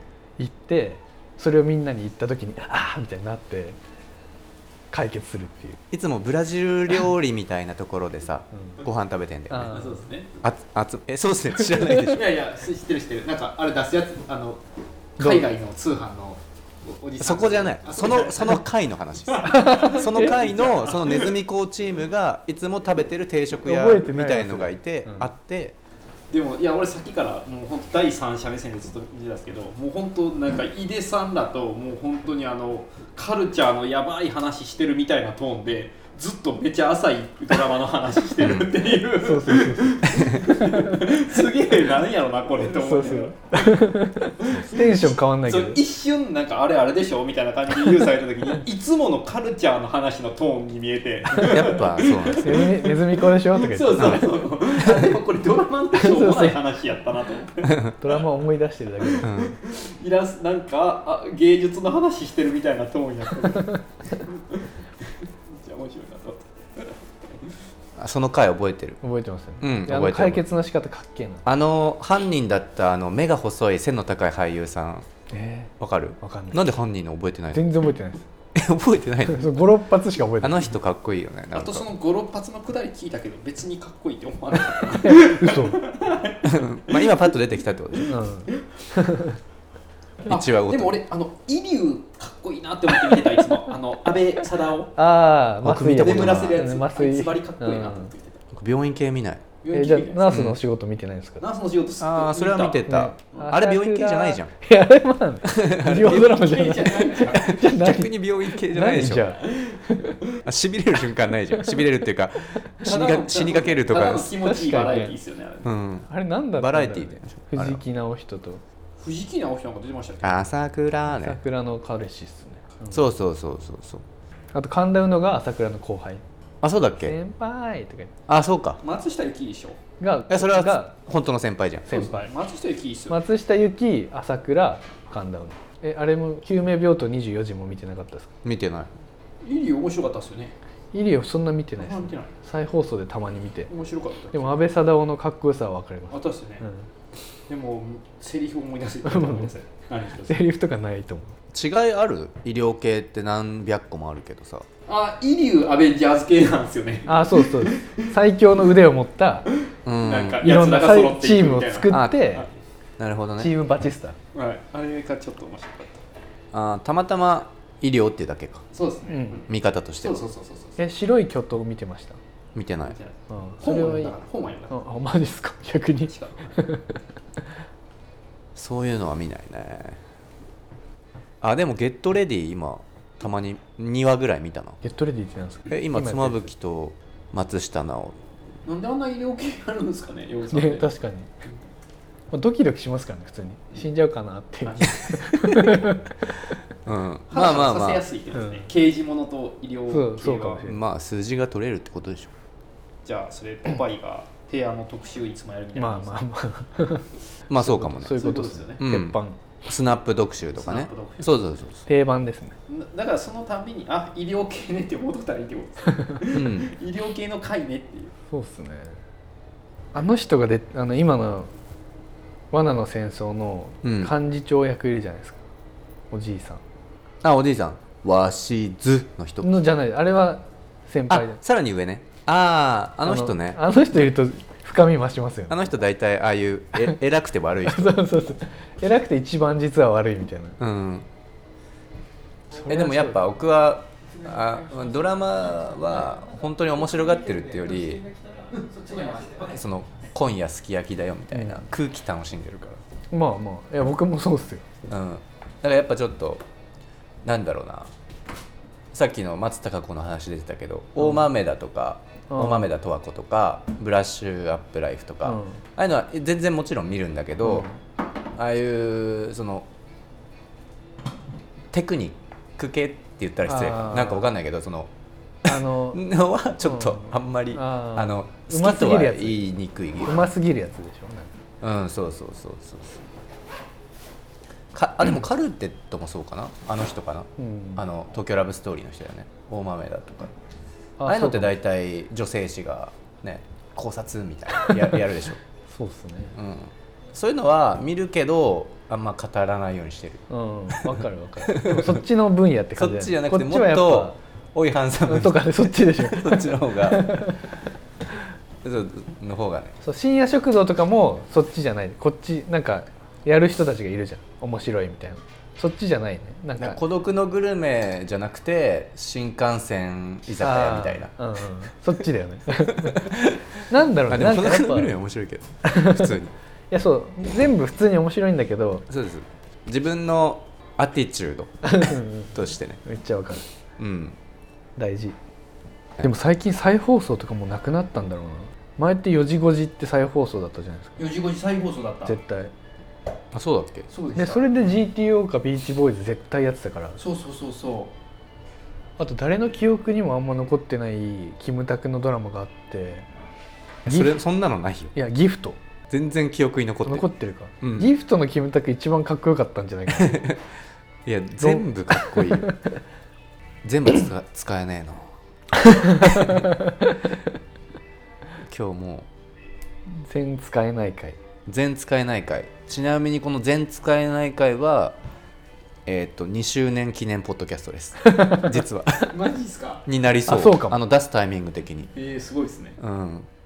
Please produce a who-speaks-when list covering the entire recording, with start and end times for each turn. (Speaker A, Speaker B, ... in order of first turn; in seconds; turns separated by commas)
Speaker A: 0.4-3.8, Speaker A: 4.9-5.8, Speaker B: 5.9-9.8, Speaker A: 9.5-10.0, Speaker C: 9.7-10.3, Speaker B: 10.4-12.2, Speaker A: 11.6-12.0, Speaker C: 11.9-14.6, Speaker C: 15.2-18.6, Speaker A: 15.2-15.4, Speaker B: 17.2-25.7, Speaker C: 19.3-21.4, Speaker A: 19.4-20.2, Speaker A: 23.6-25.3, Speaker C: 26.3-58.2, Speaker B: 38.4-38.7, Speaker A: 39.2-41.1, Speaker B: 40.1-40.4, Speaker A: 42.6-45.8, Speaker B: 51.3-52.6, Speaker A: 52.3-55.1, Speaker A: 55.9-56.6, Speaker A: 57.9-59.4, Speaker C: 59.2-67.5, Speaker B: 59.2-59.5, Speaker B: 68.0-69.0, Speaker A: 69.0-71.4, Speaker B: 69.6-70.5, Speaker B: 71.4-75.1, Speaker A: 75.3-76.6, Speaker B: 75.8-77.7, Speaker A: 77.5-78.2, Speaker B: 78.5-79.5, Speaker A: 79.2-80.8, Speaker B: 80.4-81.8, Speaker C: 81.5-87.3, Speaker A: 84.9-85.8, Speaker B: 86.4-88.1, Speaker A: 88.0-89.4, Speaker B: 90.2-91.0, Speaker C: 90.2-94.9, Speaker A: 95.0-98.1, Speaker B: 95.6-96.6, Speaker C: 95.8-98.4, Speaker B: 98.5-99.5, Speaker C: 99.6-100.3, Speaker A: 99.7-101.4, Speaker B: 100.3-100.6, Speaker C: 101.4-102.8, Speaker B: 102.0-104.5, Speaker A: 102.8-110.2, Speaker B: 105.5-106.3, Speaker C: 105.8-107.5, Speaker B: 107.3-109.3, Speaker C: 109.4-110.4, Speaker B: 110.4-114.3, Speaker C: 112.8-115.7, Speaker A: 114.4-115.1, Speaker B: 115.6-117.8, Speaker A: 116.1-118.6, Speaker C: 119.0-120.5, Speaker B: 120.2-121.4, Speaker A: 121.1-123.0, Speaker B: 122.9-124.0, Speaker A: 124.5-126.2, Speaker B: 126.6-127.2, Speaker A: 127.0-128.1, Speaker B: 128.3-128.8, Speaker C: 128.8-129.8, Speaker A: 130.0-130.9, Speaker B: 130.3-131.9, Speaker A: 131.9-132.3, Speaker C: 131.9-133.2, Speaker A: 133.1-138.3, Speaker B: 138.4-138.9, Speaker C: 139.4-140.5, Speaker A: 140.9-143.7, Speaker C: 141.8-142.3, Speaker C: 143.7-144.4, Speaker A: 144.3-146.9, Speaker C: 146.1-146.6, Speaker C: 147.5-150.4, Speaker A: 149.0-149.5, Speaker A: 150.2-151.3, Speaker B: 151.5-154.7, Speaker C: 154.9-158.1, Speaker A: 157.1-159.5, Speaker B: 159.8-160.4, Speaker C: 159.9-162.5, Speaker A: 160.4-162.4, Speaker B: 161.9-162.2, Speaker B: 163.0-163.5, Speaker A: 163.4-164.2, Speaker C: 164.3-166.0, Speaker B: 166.5-168.7, Speaker C: 168.7-169.5, Speaker A: 169.1-169.4, Speaker B: 169.5-170.2, Speaker C: 170.0-170.8, Speaker A: 170.8-172.2, Speaker B: 172.5-173.0, Speaker C: 172.9-174.8, Speaker A: 173.3-174.2, Speaker A: 174.7-177.0, Speaker C: 176.1-176.6, Speaker B: 178.6-180.0, Speaker B: 181.4-184.8, Speaker A: 184.8-186.5, Speaker B: 185.7-188.2, Speaker C: 188.6-190.9, Speaker A: 190.5-191.3, Speaker A: 192.3-196.1, Speaker C: 194.7-195.7, Speaker B: 196.8-198.0, Speaker C: 197.3-200.7, Speaker A: 198.3-198.7, Speaker A: 199.9-200.8, Speaker B: 200.6-202.3, Speaker C: 203.0-206.2, Speaker A: 205.7-209.4, Speaker B: 207.5-208.2, Speaker C: 208.1-208.8, Speaker B: 208.8-211.9, Speaker C: 210.6-211.3, Speaker A: 211.9-212.5, Speaker C: 212.7-218.1, Speaker B: 216.3-216.7, Speaker A: 218.3-219.0, Speaker A: 219.9-221.5, Speaker A: 222.5-225.4, Speaker B: 223.8-224.1, Speaker A: 226.1-226.6, Speaker B: 227.2-229.5, Speaker A: 229.4-231.4, Speaker B: 231.1-233.6, Speaker A: 233.0-235.7, Speaker B: 235.5-238.0, Speaker A: 237.6-240.6, Speaker B: 240.6-241.1, Speaker A: 242.6-243.2, Speaker B: 242.7-248.1, Speaker C: 248.4-249.6, Speaker B: 249.4-252.8, Speaker A: 251.3-251.6, Speaker A: 253.1-254.7, Speaker B: 254.9-256.4, Speaker B: 257.2-257.9, Speaker B: 258.9-267.7, Speaker A: 261.0-261.3, Speaker A: 262.3-262.7, Speaker A: 265.2-265.6, Speaker A: 267.4-267.8, Speaker B: 268.4-269.7, Speaker B: 271.7-274.9, Speaker A: 273.4-274.3, Speaker A: 275.4-276.0, Speaker B: 275.4-280.3, Speaker A: 276.6-279.5, Speaker A: 280.0-281.3, Speaker B: 281.6-283.1, Speaker B: 284.7-290.3, Speaker A: 287.4-287.8, Speaker A: 291.0-291.6, Speaker B: 291.1-295.4, Speaker A: 294.7-294.9, Speaker A: 295.7-296.4, Speaker B: 296.3-302.0, Speaker A: 300.3-304.2, Speaker B: 302.7-307.3, Speaker A: 305.0-307.5, Speaker B: 308.6-309.8, Speaker A: 309.8-316.8, Speaker B: 316.6-321.1, Speaker A: 320.4-323.1, Speaker B: 322.8-323.4, Speaker A: 323.7-324.9, Speaker B: 324.1-326.3, Speaker A: 325.6-326.1, Speaker A: 326.7-328.9, Speaker B: 328.9-331.7, Speaker A: 331.6-333.4, Speaker B: 332.3-332.8, Speaker B: 333.8-334.2, Speaker A: 334.8-335.2, Speaker A: 336.0-341.0, Speaker C: 341.0-342.2, Speaker A: 342.1-342.5, Speaker B: 343.3-343.9, Speaker C: 343.9-344.6, Speaker A: 344.1-347.0, Speaker C: 347.0-347.9, Speaker A: 349.0-353.1, Speaker A: 353.9-354.2, Speaker B: 353.9-354.9, Speaker A: 354.9-355.6, Speaker B: 355.9-357.1, Speaker A: 356.8-360.2, Speaker B: 357.6-357.9, Speaker B: 359.9-360.4, Speaker B: 361.0-362.5, Speaker A: 361.4-362.6, Speaker B: 363.6-365.1, Speaker A: 365.6-367.0, Speaker B: 368.4-369.1, Speaker A: 369.9-371.1, Speaker B: 371.5-375.0, Speaker B: 375.9-379.1, Speaker A: 378.0-378.5, Speaker C: 379.1-379.8, Speaker B: 379.9-381.9, Speaker A: 380.3-380.8, Speaker C: 381.9-382.8, Speaker B: 382.8-383.3